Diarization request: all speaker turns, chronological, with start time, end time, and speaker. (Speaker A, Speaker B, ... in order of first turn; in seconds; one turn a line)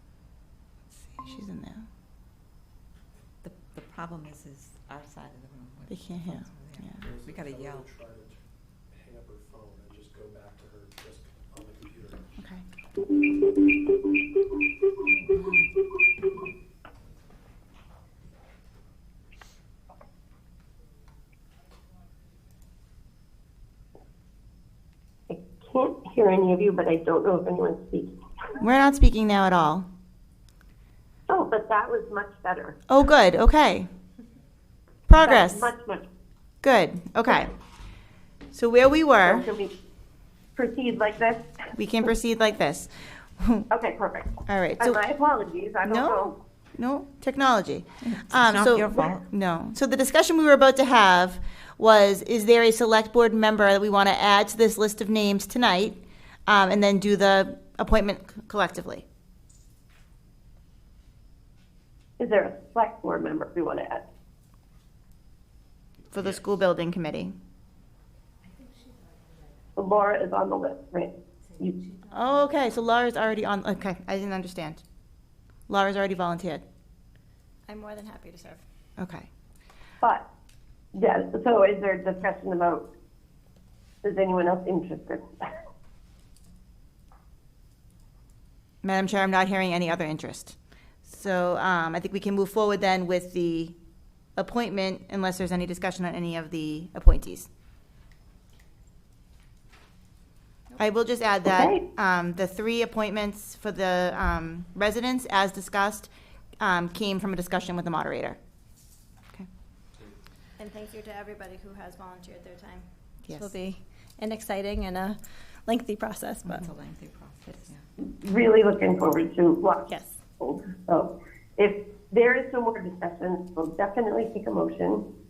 Speaker A: 1.0-1.9
Speaker B: 3.4-7.9
Speaker A: 5.9-7.0
Speaker C: 7.0-12.2
Speaker A: 12.4-12.6
Speaker B: 15.1-15.7
Speaker D: 25.3-28.1
Speaker A: 28.6-29.9
Speaker D: 31.3-32.7
Speaker A: 32.9-33.9
Speaker A: 35.1-35.7
Speaker D: 35.2-36.0
Speaker A: 36.6-37.5
Speaker A: 38.5-39.5
Speaker D: 39.3-39.7
Speaker D: 40.5-41.7
Speaker A: 41.8-43.7
Speaker D: 43.7-44.3
Speaker A: 44.5-45.0
Speaker D: 44.8-46.3
Speaker A: 45.8-59.0
Speaker B: 48.0-49.2
Speaker D: 62.2-64.0
Speaker A: 66.1-67.3
Speaker D: 69.8-71.1
Speaker A: 72.1-74.8
Speaker A: 75.7-76.6
Speaker E: 77.7-78.6
Speaker A: 79.0-79.3
Speaker D: 80.9-82.8
Speaker D: 84.0-85.2
Speaker A: 88.8-93.8
Speaker A: 94.4-97.5
Speaker A: 100.8-108.4
Speaker D: 101.4-101.8
Speaker E: 110.6-116.6
Speaker A: 113.2-113.5
Speaker B: 116.4-117.8
Speaker D: 118.0-119.8
Speaker E: 119.9-120.2
Speaker D: 120.4-125.0